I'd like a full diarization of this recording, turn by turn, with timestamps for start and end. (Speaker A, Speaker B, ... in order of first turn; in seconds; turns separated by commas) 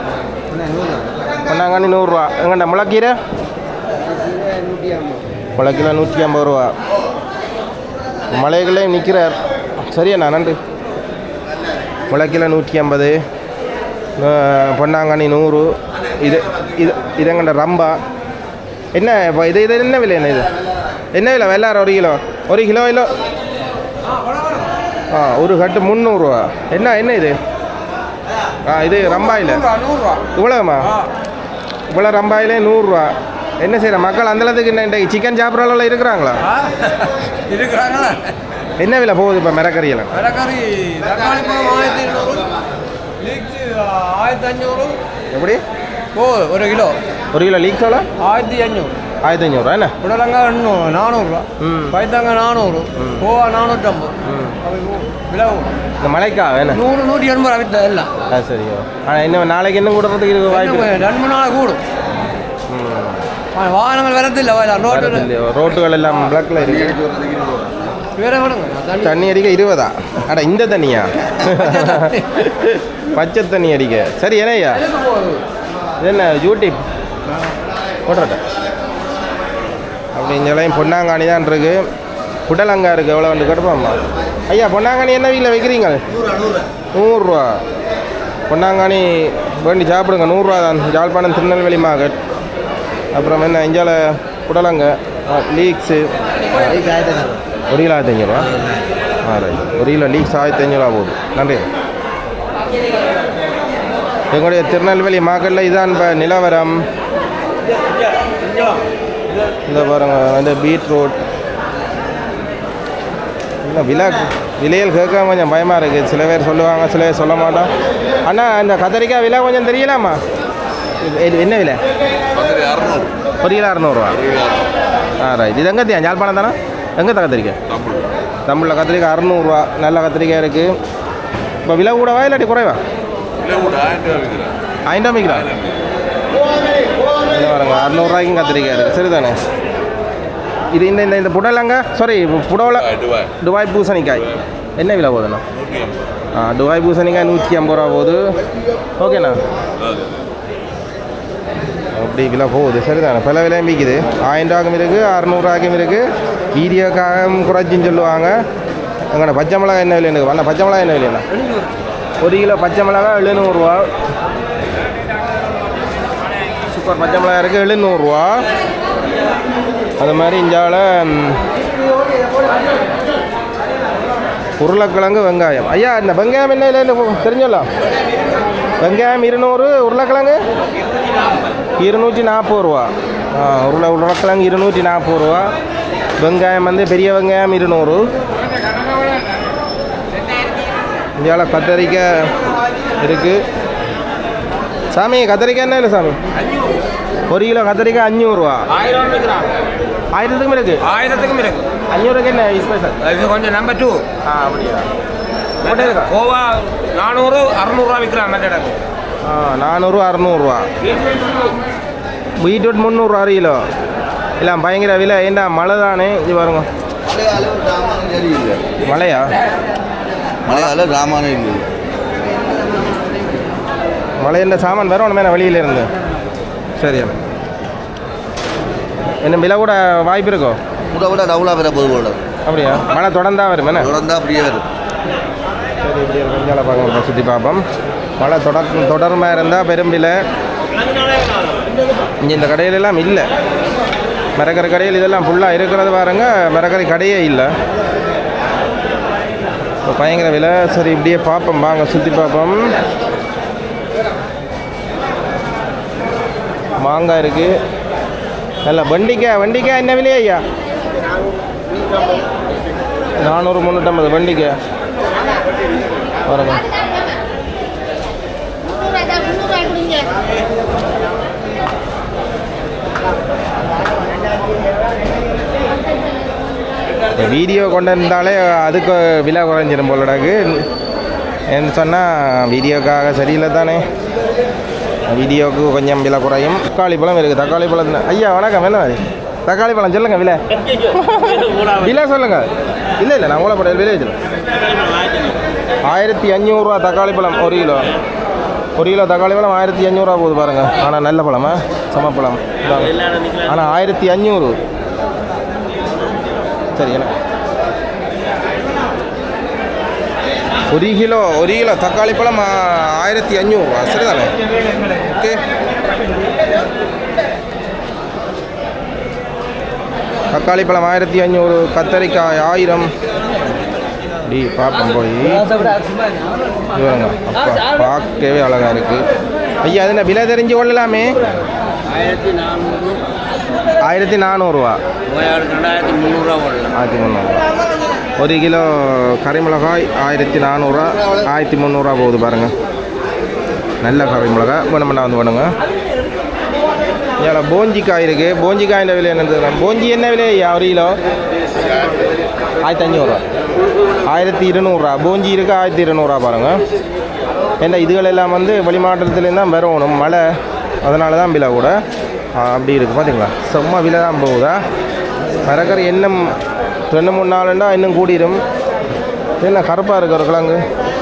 Speaker A: 1.5-3.1, Speaker A: 5.6-6.7, Speaker A: 8.3-9.4, Speaker A: 9.9-10.6, Speaker A: 12.1-13.2, Speaker A: 14.2-17.9, Speaker A: 18.9-20.5, Speaker A: 21.1-23.1, Speaker A: 25.1-27.4, Speaker A: 28.7-29.7, Speaker B: 29.7-30.1, Speaker A: 30.3-30.9, Speaker A: 31.9-36.4, Speaker B: 36.6-38.2, Speaker A: 38.8-40.2, Speaker B: 40.2-42.4, Speaker B: 43.2-44.9, Speaker A: 45.3-45.6, Speaker B: 46.1-46.9, Speaker A: 47.3-48.0, Speaker B: 48.2-48.9, Speaker A: 49.2-49.9, Speaker B: 50.0-51.4, Speaker A: 51.6-52.0, Speaker B: 52.0-54.0, Speaker A: 53.0-53.3, Speaker A: 54.2-54.6, Speaker B: 54.7-55.7, Speaker A: 56.0-56.8, Speaker B: 56.8-58.1, Speaker A: 58.3-61.1, Speaker B: 61.2-61.8, Speaker A: 62.7-63.2, Speaker B: 63.6-64.5, Speaker A: 64.8-67.0, Speaker C: 67.1-67.7, Speaker B: 68.2-68.7, Speaker A: 69.0-74.8, Speaker A: 76.0-76.8, Speaker A: 78.1-78.4, Speaker A: 80.1-81.8, Speaker A: 82.5-86.0, Speaker A: 86.9-87.6, Speaker A: 88.5-92.2, Speaker A: 93.1-97.0, Speaker A: 97.7-98.5, Speaker A: 99.2-101.7, Speaker A: 104.3-106.8, Speaker A: 109.7-111.2, Speaker A: 113.6-117.7, Speaker A: 118.3-120.2, Speaker A: 121.0-121.8, Speaker C: 122.3-123.1, Speaker A: 123.4-124.2, Speaker A: 125.2-127.6, Speaker A: 128.5-130.7, Speaker A: 131.6-132.8, Speaker C: 133.4-134.5, Speaker A: 134.9-135.5, Speaker A: 137.3-139.4, Speaker A: 140.7-144.2, Speaker A: 144.8-145.4, Speaker A: 146.3-148.3, Speaker A: 149.0-149.4, Speaker A: 151.9-156.0, Speaker A: 156.5-158.3, Speaker A: 159.1-161.2, Speaker A: 162.2-163.9, Speaker A: 166.6-168.4, Speaker A: 170.0-171.4, Speaker A: 174.6-177.7, Speaker A: 178.8-180.4, Speaker A: 181.8-185.5, Speaker A: 186.2-188.0, Speaker A: 191.2-192.3, Speaker A: 193.0-193.4, Speaker A: 194.9-196.2, Speaker A: 197.3-198.7, Speaker B: 198.9-199.5, Speaker A: 200.1-200.8, Speaker B: 200.9-201.5, Speaker A: 201.9-203.1, Speaker B: 203.2-204.0, Speaker A: 204.2-204.9, Speaker A: 205.6-206.1, Speaker D: 205.7-206.2, Speaker B: 206.4-207.2, Speaker D: 207.1-208.7, Speaker A: 209.2-210.7, Speaker A: 212.4-213.6, Speaker A: 214.4-216.7, Speaker C: 217.1-218.6, Speaker A: 218.8-219.3, Speaker A: 220.5-220.8, Speaker C: 220.5-221.7, Speaker A: 224.2-225.9, Speaker A: 226.8-227.1, Speaker A: 229.2-230.6, Speaker C: 230.9-232.2, Speaker A: 232.4-233.9, Speaker C: 233.8-234.6, Speaker A: 235.8-237.6, Speaker A: 238.2-240.2, Speaker A: 242.2-243.3, Speaker A: 244.4-247.5, Speaker A: 249.8-252.7, Speaker A: 256.8-257.5, Speaker A: 258.6-260.4, Speaker A: 263.2-264.5, Speaker A: 266.3-266.6, Speaker A: 277.2-280.6, Speaker A: 281.5-283.8, Speaker A: 285.1-292.5, Speaker A: 293.0-294.1, Speaker A: 295.9-297.9, Speaker A: 298.8-304.6, Speaker A: 306.8-307.1, Speaker A: 310.7-314.3, Speaker A: 314.9-315.4, Speaker A: 320.3-322.9, Speaker A: 324.3-325.6, Speaker A: 326.7-329.0, Speaker A: 329.6-331.1, Speaker E: 331.9-333.0, Speaker A: 333.8-334.8, Speaker E: 335.1-336.7, Speaker A: 336.7-337.4, Speaker A: 338.2-342.5, Speaker A: 343.8-345.5, Speaker A: 347.2-350.9, Speaker A: 352.6-353.2, Speaker A: 354.1-356.6, Speaker A: 357.6-360.2, Speaker A: 360.8-361.8, Speaker A: 362.4-364.6, Speaker A: 365.4-366.3, Speaker A: 366.9-368.4, Speaker A: 369.4-370.6